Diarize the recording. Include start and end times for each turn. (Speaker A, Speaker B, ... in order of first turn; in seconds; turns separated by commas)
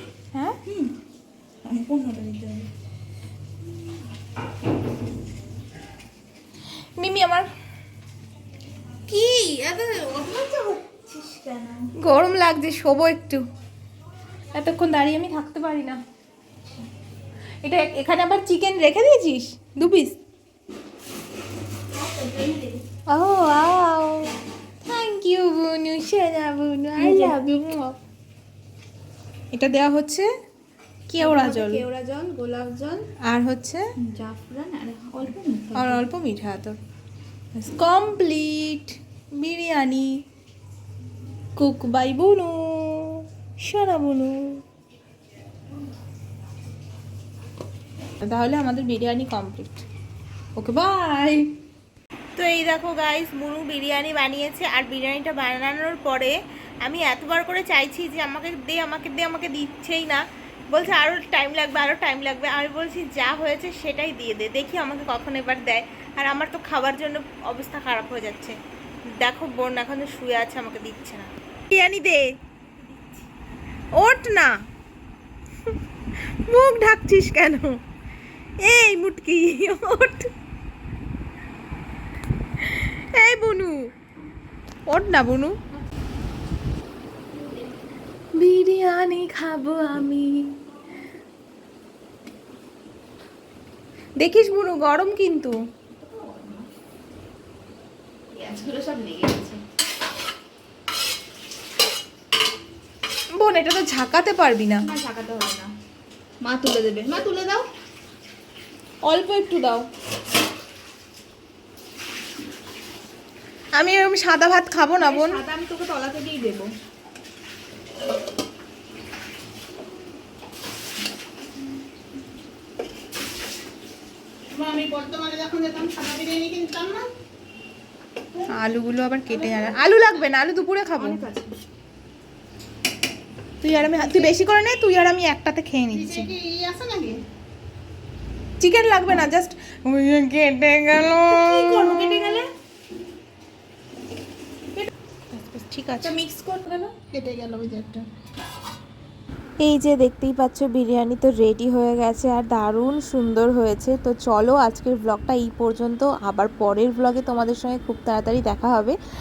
Speaker A: 0.7-0.9, Speaker A: 1.6-2.7, Speaker B: 7.0-7.5, Speaker A: 9.1-11.9, Speaker B: 12.0-13.4, Speaker B: 14.5-16.0, Speaker B: 17.6-20.1, Speaker A: 21.9-22.8, Speaker B: 23.1-24.3, Speaker B: 24.8-27.9, Speaker A: 27.0-27.3, Speaker B: 29.5-30.3, Speaker B: 31.1-31.8, Speaker A: 31.2-33.0, Speaker B: 33.2-33.8, Speaker A: 34.0-36.0, Speaker B: 35.7-36.8, Speaker B: 37.5-40.1, Speaker B: 41.5-44.6, Speaker B: 48.2-49.8, Speaker B: 50.5-51.5, Speaker B: 52.4-72.3, Speaker A: 72.8-73.2, Speaker B: 73.9-74.5, Speaker B: 76.1-77.8, Speaker B: 78.6-80.3, Speaker B: 82.6-83.9, Speaker B: 84.9-85.5, Speaker A: 87.3-87.8, Speaker B: 88.3-90.5, Speaker B: 94.2-95.6, Speaker A: 95.9-96.7, Speaker A: 98.3-99.6, Speaker B: 103.3-104.8, Speaker A: 104.8-105.7, Speaker A: 106.4-107.7, Speaker B: 109.0-109.9, Speaker B: 113.7-115.4, Speaker A: 114.9-116.7, Speaker C: 124.5-127.1, Speaker B: 128.5-131.2, Speaker A: 131.0-131.6, Speaker B: 133.6-136.3, Speaker C: 135.9-137.2, Speaker B: 138.6-142.4, Speaker A: 141.3-142.5, Speaker B: 145.3-146.1, Speaker A: 146.0-146.9, Speaker C: 147.1-148.0, Speaker B: 149.6-159.0